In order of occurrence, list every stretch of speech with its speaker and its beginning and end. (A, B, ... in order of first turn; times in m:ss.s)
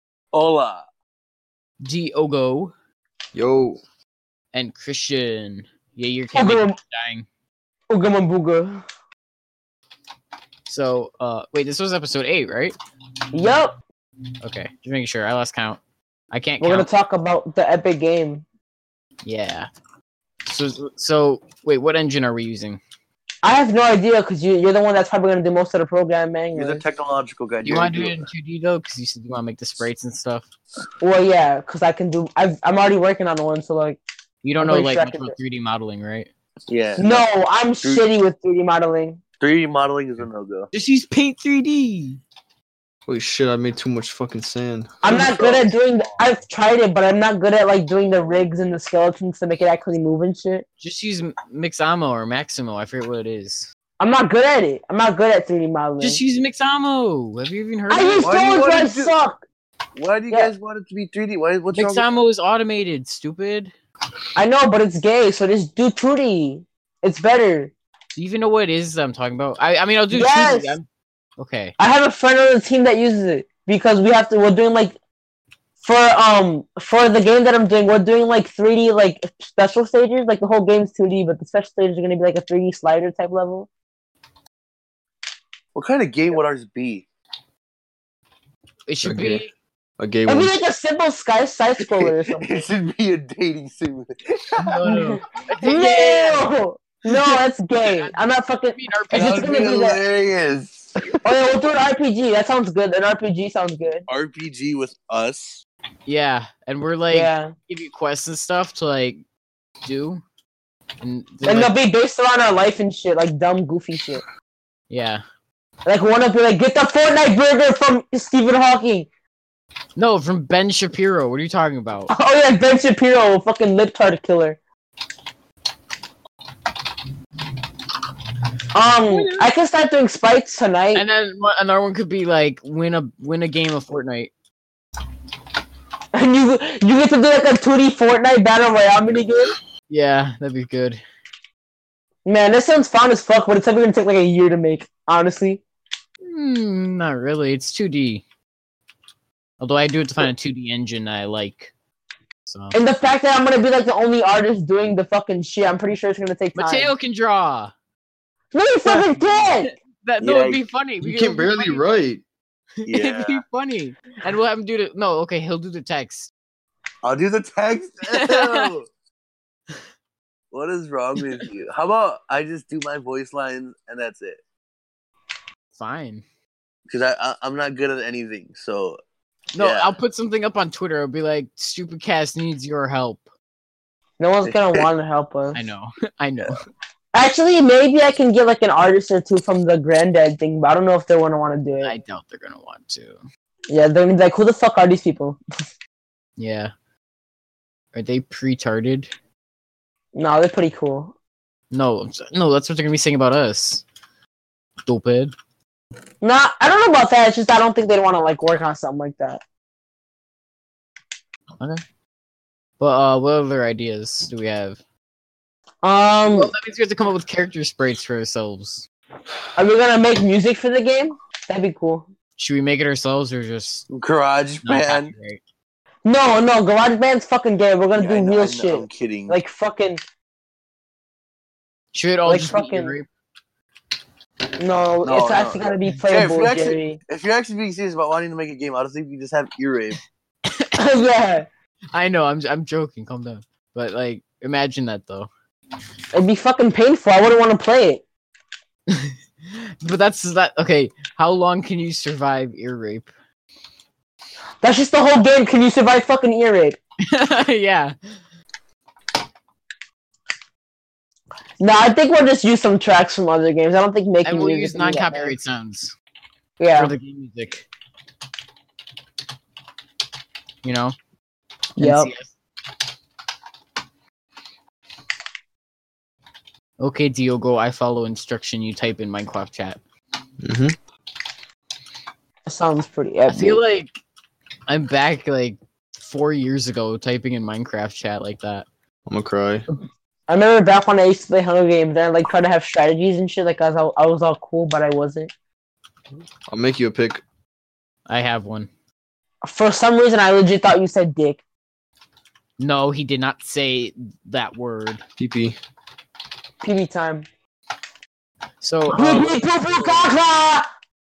0:00.3-0:00.9 A
0:01.8-0:02.7 B
0:03.3-0:03.8 C
0:04.5-0:07.3 B
0:06.3-0:06.8 D
0:07.9-0:08.8 D
0:10.7-0:12.8 B
0:13.3-0:13.8 D
0:14.4-0:15.8 B
0:16.3-0:16.9 B
0:16.6-0:18.4 D
0:19.2-0:19.7 B
0:20.5-0:22.8 B
0:23.4-0:26.8 D
0:26.5-0:28.3 A
0:27.6-0:30.5 B
0:31.0-0:34.0 D
0:34.4-0:36.3 B
0:34.6-0:35.4 D
0:36.7-0:37.3 A
0:37.0-0:39.2 D
0:37.8-0:38.1 A
0:39.4-0:40.7 A
0:40.7-0:42.2 B
0:43.1-0:45.3 C
0:45.0-0:50.6 D
0:50.8-0:53.7 B
0:54.0-0:56.2 D
0:56.0-0:58.3 B
0:57.9-0:59.4 D
0:58.2-0:59.1 A
1:00.0-1:02.1 A
1:01.7-1:03.7 B
1:04.4-1:07.7 D
1:08.2-1:10.9 B
1:10.1-1:10.8 D
1:11.4-1:11.7 B
1:11.8-1:15.0 D
1:15.8-1:23.7 D
1:25.7-1:27.0 A
1:28.9-1:29.5 B
1:29.0-1:29.4 C
1:30.0-1:30.6 C
1:30.3-1:32.7 D
1:31.8-1:34.8 A
1:34.6-1:36.5 B
1:34.8-1:40.0 D
1:37.9-1:38.2 B
1:38.8-1:39.7 B
1:39.1-1:41.0 A
1:41.2-1:44.1 D
1:44.1-1:45.6 A
1:46.1-1:49.2 B
1:47.1-1:47.5 D
1:49.8-1:50.2 B
1:51.0-1:51.8 B
1:51.4-1:54.2 D
1:54.9-1:55.2 B
1:55.8-1:59.1 D
2:00.0-2:02.1 B
2:02.1-2:04.6 D
2:08.7-2:11.0 D
2:09.1-2:09.5 B
2:10.9-2:14.3 B
2:16.1-2:19.6 D
2:19.9-2:21.0 B
2:22.2-2:25.6 D
2:26.2-2:28.2 B
2:29.6-2:31.7 B
2:32.5-2:32.8 B
2:32.7-2:36.9 D
2:36.6-2:37.7 B
2:38.5-2:39.7 D
2:38.8-2:42.0 B
2:40.2-2:40.6 A
2:41.0-2:42.2 C
2:42.8-2:46.3 B
2:42.9-2:43.4 A
2:47.0-2:48.9 A
2:48.1-2:48.6 B
2:50.5-2:54.4 A
2:55.7-2:56.2 B
2:56.9-2:59.0 A
2:59.6-3:03.2 B
2:59.6-3:00.0 A
3:04.2-3:05.6 D
3:04.4-3:04.8 A
3:05.6-3:06.6 B
3:07.1-3:12.0 D
3:11.8-3:13.2 B
3:13.7-3:15.4 D
3:16.4-3:16.7 B
3:17.9-3:19.1 B
3:20.2-3:21.1 D
3:21.7-3:23.8 B
3:24.9-3:25.3 B
3:26.2-3:29.4 D
3:32.8-3:34.8 B
3:35.8-3:36.5 D
3:36.3-3:38.9 B
3:39.6-3:42.1 D
3:42.4-3:43.9 B
3:43.9-3:45.1 A
3:44.6-3:45.4 B
3:46.0-3:50.0 D
3:48.0-3:49.4 A
3:51.9-3:53.1 B
3:52.3-3:53.0 D
3:54.6-3:57.0 D
3:55.0-4:00.0 A
4:00.8-4:01.5 D
4:01.9-4:05.3 B
4:06.1-4:08.0 D
4:09.8-4:13.1 B
4:14.6-4:16.8 D
4:17.1-4:18.0 B
4:21.6-4:25.4 D
4:24.2-4:25.9 B
4:26.6-4:26.9 D
4:26.8-4:27.7 B
4:30.6-4:31.0 B
4:31.8-4:32.1 D
4:31.8-4:32.3 B
4:36.8-4:39.8 B
4:40.4-4:40.8 C
4:42.5-4:43.6 D
4:43.3-4:44.0 B
4:44.7-4:48.7 B
4:49.1-4:49.7 C
4:50.3-4:55.3 D
4:56.5-4:57.2 C
4:58.1-4:58.7 B
4:59.4-5:01.4 D
5:02.6-5:05.0 B
5:05.2-5:05.6 C
5:06.6-5:07.3 D
5:08.6-5:10.1 B
5:08.9-5:10.7 D